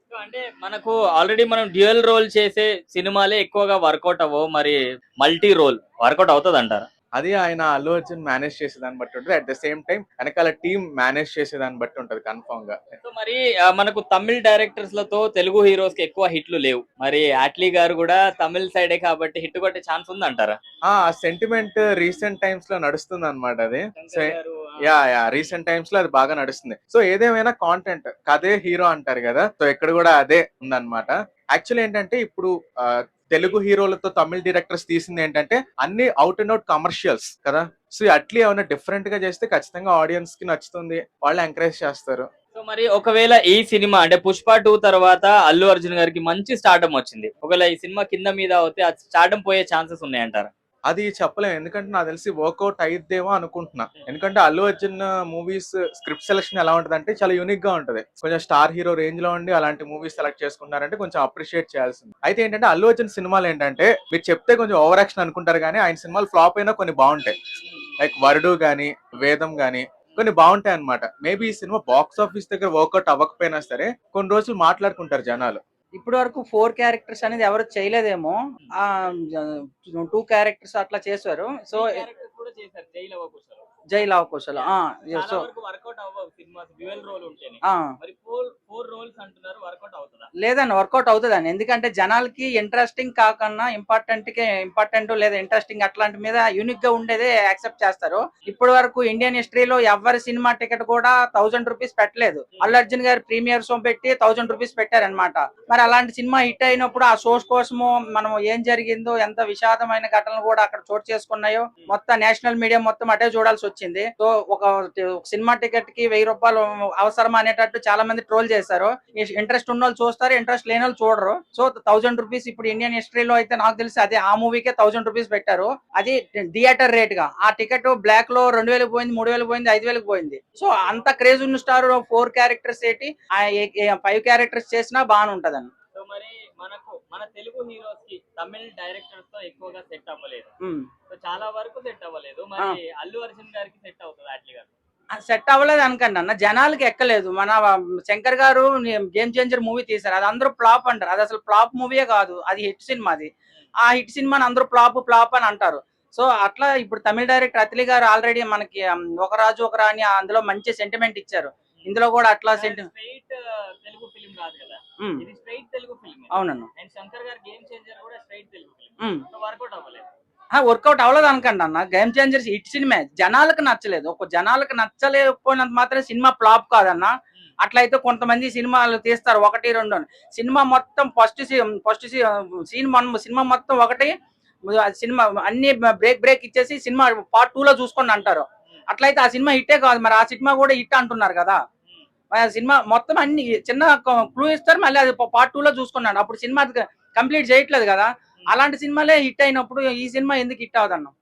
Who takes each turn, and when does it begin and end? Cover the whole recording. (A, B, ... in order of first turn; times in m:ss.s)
0:00.1-0:06.9 A
0:07.2-0:12.8 B
0:13.0-0:20.6 A
0:20.9-0:42.2 B
0:23.9-0:25.0 A
0:42.5-0:50.5 A
0:50.9-1:07.4 B
1:08.0-1:15.6 B
1:16.0-1:22.0 C
1:21.7-1:23.6 A
1:23.9-1:25.5 C
1:24.6-1:30.3 A
1:30.4-2:15.7 C
2:15.9-2:20.5 A
2:20.6-2:20.9 C
2:21.1-2:24.7 A
2:25.2-2:33.3 C
2:33.8-2:42.9 C
2:42.5-2:50.1 A
2:46.3-2:46.7 C
2:50.6-2:57.1 C
2:57.6-3:04.1 C
3:04.7-3:11.6 C
3:12.4-3:21.1 C